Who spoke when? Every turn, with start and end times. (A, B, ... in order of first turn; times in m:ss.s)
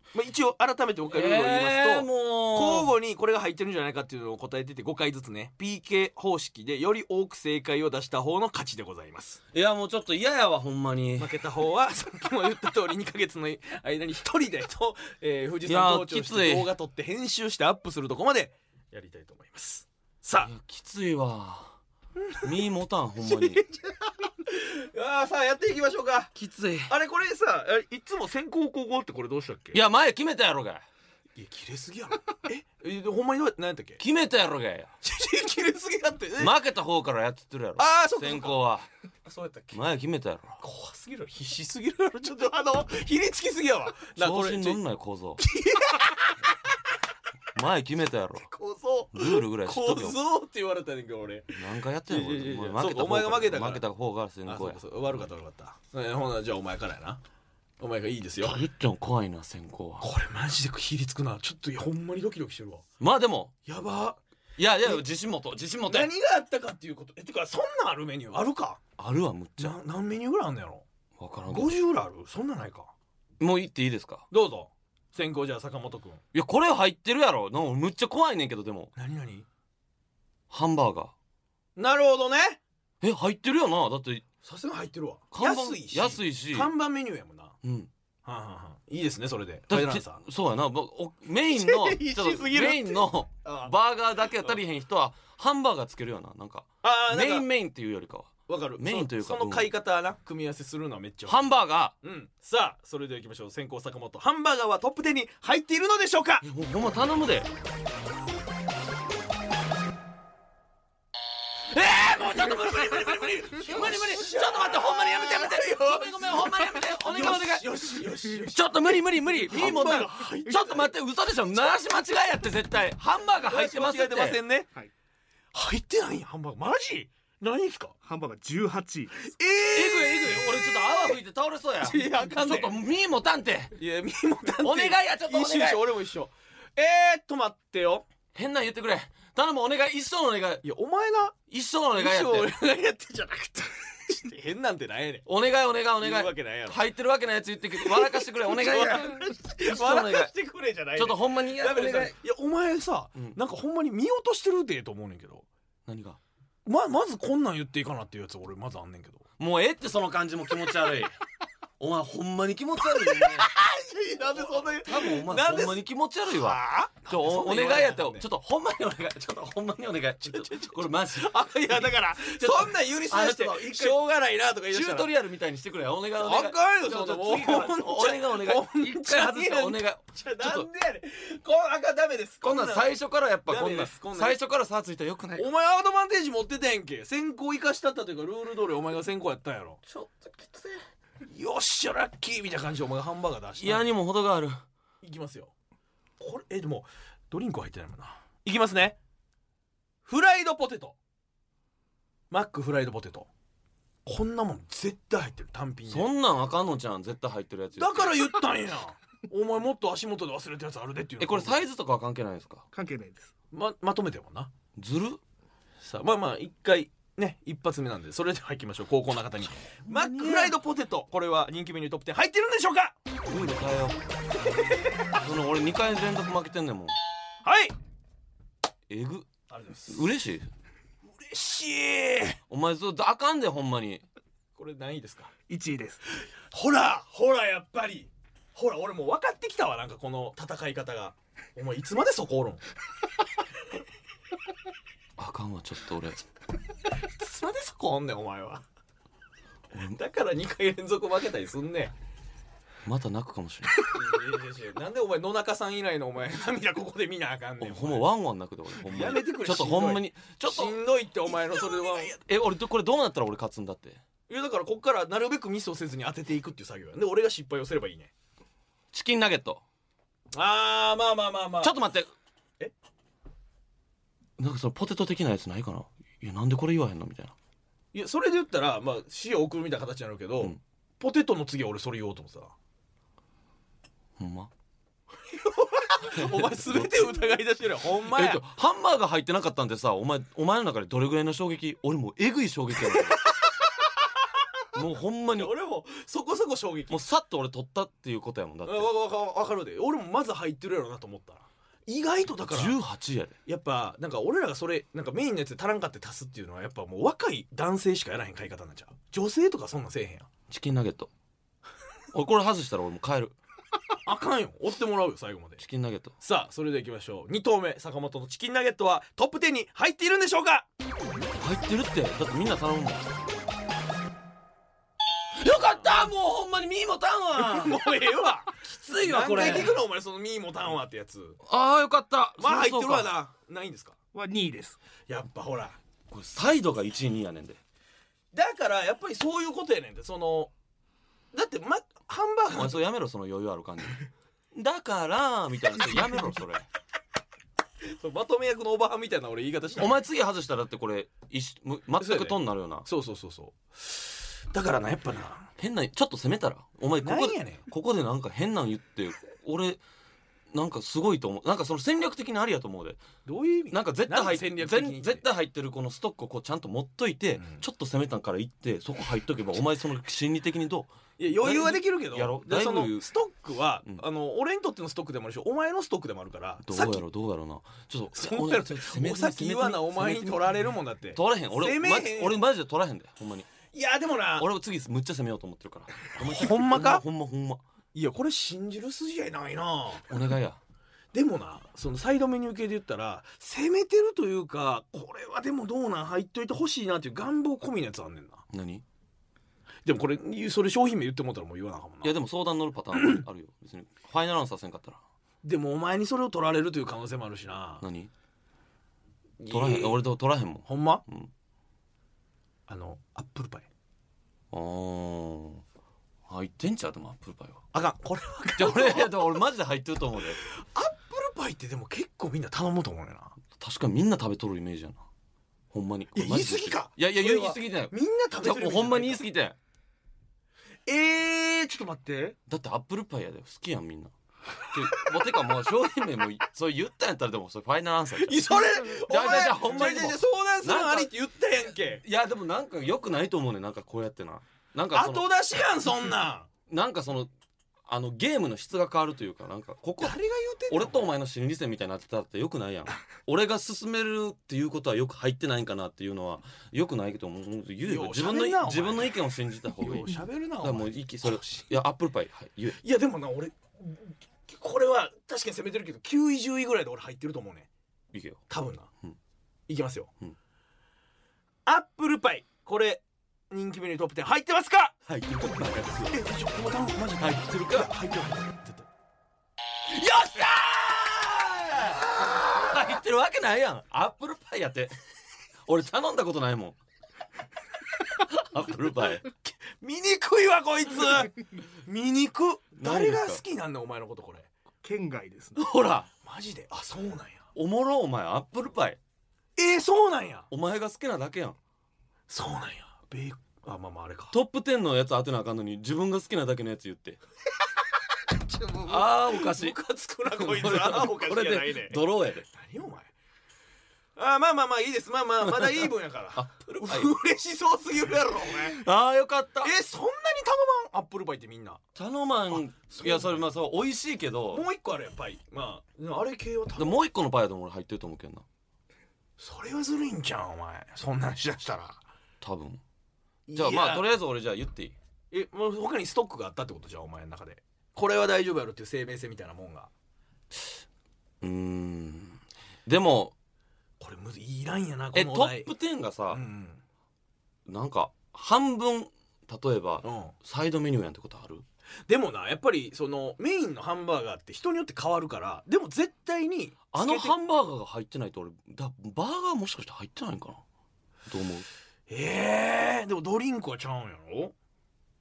0:00.1-0:09.4 A
0:01.1-0:02.9 B
0:09.5-0:11.4 B
0:11.2-0:20.5 A
0:15.6-0:16.7 B
0:20.4-0:21.8 B
0:22.2-0:22.6 A
0:22.4-0:23.6 B
0:23.2-0:26.3 A
0:26.3-0:26.9 B
0:26.9-0:29.8 A
0:29.7-0:30.8 B
0:31.4-0:34.0 A
0:34.0-0:34.9 B
0:35.0-0:36.6 A
0:36.4-0:38.9 B
0:37.8-0:38.6 A
0:39.2-0:39.8 A
0:39.7-0:40.6 B
0:40.6-0:44.8 A
0:44.2-0:45.4 B
0:45.4-0:46.5 A
0:47.5-0:48.5 B
0:48.4-0:53.8 A
0:49.1-0:50.2 B
0:51.6-0:54.8 B
0:54.4-0:57.2 A
0:57.8-0:58.6 A
0:58.4-1:00.1 B
1:00.0-1:02.8 A
1:03.0-1:03.5 B
1:03.6-1:04.2 A
1:04.6-1:06.1 B
1:05.9-1:08.8 A
1:09.0-1:09.8 B
1:09.6-1:10.8 A
1:11.2-1:11.7 B
1:11.5-1:12.9 A
1:13.4-1:14.2 B
1:14.3-1:16.2 A
1:16.3-1:18.9 B
1:19.0-1:19.4 A
1:20.5-1:21.1 B
1:21.8-1:22.6 A
1:23.0-1:24.2 B
1:24.4-1:27.6 A
1:25.3-1:26.7 B
1:27.6-1:27.9 B
1:28.2-1:30.2 A
1:29.7-1:39.7 B
1:31.5-1:33.7 A
1:36.8-1:37.5 A
1:38.5-1:41.4 A
1:41.3-1:41.9 B
1:42.0-1:46.4 A
1:46.4-1:47.5 B
1:51.7-1:57.9 B
1:52.1-2:00.9 A
1:58.5-2:04.4 B
2:03.5-2:04.7 A
2:05.5-2:08.0 A
2:08.0-2:09.3 C
2:09.2-2:11.1 A
2:09.7-2:13.8 B
2:11.8-2:12.7 A
2:13.7-2:18.0 A
2:14.6-2:15.9 B
2:18.3-2:20.6 B
2:20.6-2:21.4 A
2:21.5-2:22.5 B
2:22.0-2:25.3 A
2:25.2-2:30.3 B
2:26.0-2:26.8 A
2:27.8-2:35.4 A
2:31.0-2:32.1 B
2:35.8-2:36.2 B
2:36.6-2:39.2 A
2:39.4-2:41.2 B
2:41.8-2:43.5 B
2:42.9-2:48.2 A
2:44.3-2:54.0 B
2:50.2-2:55.1 A
2:54.7-3:00.7 B
2:56.2-3:02.9 A
3:02.4-3:05.5 B
3:03.5-3:04.4 A
3:05.4-3:09.8 A
3:09.9-3:10.8 B
3:11.2-3:13.9 A
3:13.6-3:14.6 B
3:15.0-3:15.5 A
3:16.2-3:19.0 A
3:20.0-3:21.0 A
3:22.3-3:23.3 A
3:24.0-3:26.1 A
3:25.9-3:28.3 B
3:27.8-3:31.6 A
3:31.2-3:32.6 B
3:32.7-3:33.3 C
3:33.5-3:34.5 A
3:34.8-3:35.2 B
3:35.8-3:42.9 A
3:39.8-3:40.6 B
3:43.2-3:44.0 B
3:44.4-3:45.2 A
3:45.1-3:46.9 B
3:47.4-3:47.7 A
3:48.9-3:49.3 B
3:49.5-3:50.1 A
3:49.9-3:50.5 B
3:51.1-3:52.4 A
3:52.5-3:54.0 B
3:54.6-3:55.3 A
3:55.5-3:56.0 C
3:56.2-4:02.6 A
4:05.2-4:06.2 B
4:07.0-4:08.6 A
4:09.7-4:10.0 B
4:09.9-4:11.9 A
4:12.8-4:13.9 B
4:13.8-4:18.1 A
4:17.6-4:20.8 B
4:18.8-4:22.2 A
4:21.4-4:24.0 B
4:24.3-4:28.1 A
4:28.9-4:29.6 B
4:30.3-4:31.8 A
4:31.6-4:32.1 B
4:34.4-4:37.3 B
4:37.9-4:42.5 A
4:44.2-4:44.5 B
4:45.3-4:48.4 A
4:46.1-4:47.3 B
4:47.9-4:53.2 B
4:52.9-4:53.6 A
4:54.7-4:55.5 B
4:55.3-4:57.0 A
4:56.9-4:58.9 B
4:58.6-5:02.8 A
5:02.4-5:03.4 B
5:03.4-5:10.3 A
5:10.5-5:11.1 B
5:12.1-5:13.4 B
5:14.0-5:15.6 A
5:15.6-5:16.2 B
5:16.2-5:20.7 A
5:21.4-5:23.2 B
5:25.4-5:27.8 B
5:27.3-5:31.4 A
5:28.6-5:29.8 B
5:31.4-5:33.1 B
5:32.4-5:34.0 A
5:34.1-5:34.8 C
5:35.1-5:35.8 A
5:36.1-5:37.6 B
5:38.3-5:40.5 A
5:41.3-5:42.8 A
5:42.5-5:46.7 B
5:47.8-5:50.0 A
5:49.8-5:52.9 B
5:52.0-5:55.5 A
5:55.6-5:59.8 B
5:57.0-5:57.6 A
6:00.5-6:03.0 B
6:03.2-6:05.2 A
6:03.7-6:13.1 B
6:07.4-6:07.6 A
6:11.2-6:17.0 A
6:16.6-6:20.5 B
6:18.1-6:22.4 A
6:21.1-6:23.5 B
6:23.7-6:24.5 A
6:24.4-6:27.6 B
6:26.1-6:27.0 A
6:27.9-6:30.1 A
6:30.1-6:30.6 B
6:31.1-6:38.4 A
6:38.5-6:38.8 B
6:39.8-6:42.1 A
6:42.0-6:45.0 B
6:42.9-6:43.2 A
6:45.4-6:47.8 A
6:47.8-6:48.1 B
6:49.4-6:50.0 A
6:49.5-6:51.3 B
6:50.6-6:51.0 A
6:52.7-6:53.7 A
6:54.5-6:55.6 B
6:56.3-6:57.6 B
6:57.7-6:59.4 A
6:58.6-7:00.4 B
7:00.4-7:03.4 A
7:03.6-7:05.0 B
7:05.7-7:09.6 B
7:06.1-7:09.2 A
7:10.9-7:12.4 A
7:12.5-7:14.1 B
7:14.7-7:21.1 B
7:18.1-7:22.0 A
7:21.8-7:25.3 B
7:24.9-7:26.5 A
7:26.7-7:27.3 B
7:27.9-7:30.2 B
7:30.0-7:31.1 A
7:30.7-7:42.8 B
7:37.8-7:39.2 A
7:39.8-7:41.6 A
7:42.8-7:47.7 A
7:48.1-7:48.4 B
7:48.5-7:48.9 A
7:49.7-7:50.1 A
7:51.6-7:54.9 A
7:55.1-7:56.2 B
7:56.1-7:58.9 A
7:57.2-7:57.9 B
7:59.9-8:05.0 B
8:02.2-8:02.7 A
8:05.6-8:06.8 B
8:08.0-8:09.2 B
8:09.4-8:14.5 A
8:12.8-8:13.4 B
8:14.8-8:15.6 C
8:15.6-8:16.1 B
8:16.2-8:17.5 A
8:17.5-8:19.0 B
8:19.6-8:20.5 A
8:20.5-8:21.6 B
8:22.3-8:24.3 A
8:24.3-8:27.2 B
8:28.3-8:33.1 A
8:28.9-8:29.8 B
8:30.3-8:32.4 B
8:34.2-8:38.8 A
8:35.5-8:37.1 B
8:38.6-8:39.7 B
8:39.6-8:41.8 A
8:41.9-8:44.6 B
8:42.5-8:43.4 A
8:44.5-8:47.0 A
8:46.8-8:48.4 B
8:49.4-8:52.0 A
8:52.4-8:52.8 B
8:53.5-8:54.1 A
8:53.5-8:55.0 B
8:55.3-8:59.9 A
9:01.4-9:03.3 B
9:04.0-9:05.7 A
9:05.1-9:06.4 B
9:06.3-9:06.8 A
9:07.6-9:11.6 B
9:10.0-9:10.3 A
9:12.1-9:17.3 A
9:16.9-9:20.6 B
9:21.3-9:21.7 B
9:22.1-9:24.5 A